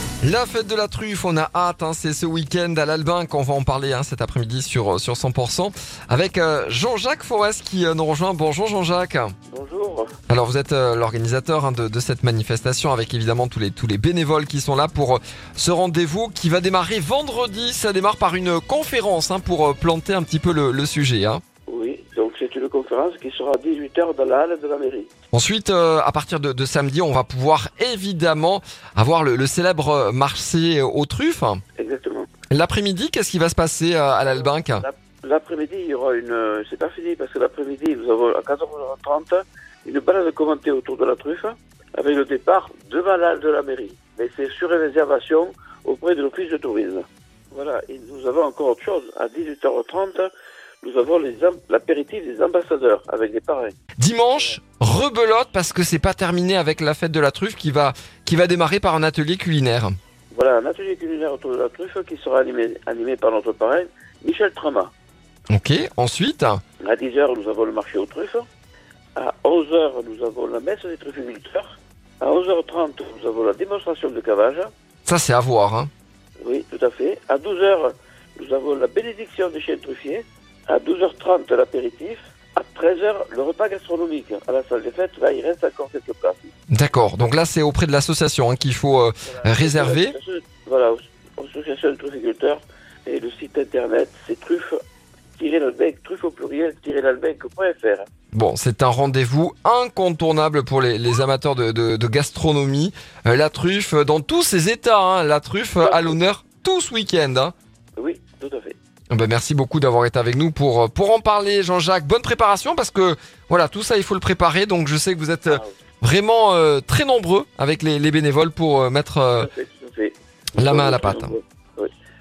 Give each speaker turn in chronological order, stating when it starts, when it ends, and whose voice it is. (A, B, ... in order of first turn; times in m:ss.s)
0:00.2-0:09.3 A
0:09.5-0:10.1 B
0:10.3-0:21.4 A
0:21.6-0:25.1 B
0:25.3-0:31.6 A
0:31.8-0:32.3 B
0:32.5-0:34.8 A
0:34.2-0:53.8 B
0:54.0-0:59.9 A
1:00.3-1:04.9 B
1:05.5-1:06.6 A
1:06.8-1:08.5 B
1:09.1-1:14.7 B
1:15.0-1:15.9 A
1:16.4-1:26.5 B
1:26.7-1:30.2 A
1:29.3-1:34.8 B
1:35.4-1:38.1 B
1:38.3-1:47.5 A
1:45.8-1:46.2 B
1:48.0-1:48.8 B
1:49.1-1:59.5 A
1:59.4-2:01.9 B
2:00.6-2:01.3 A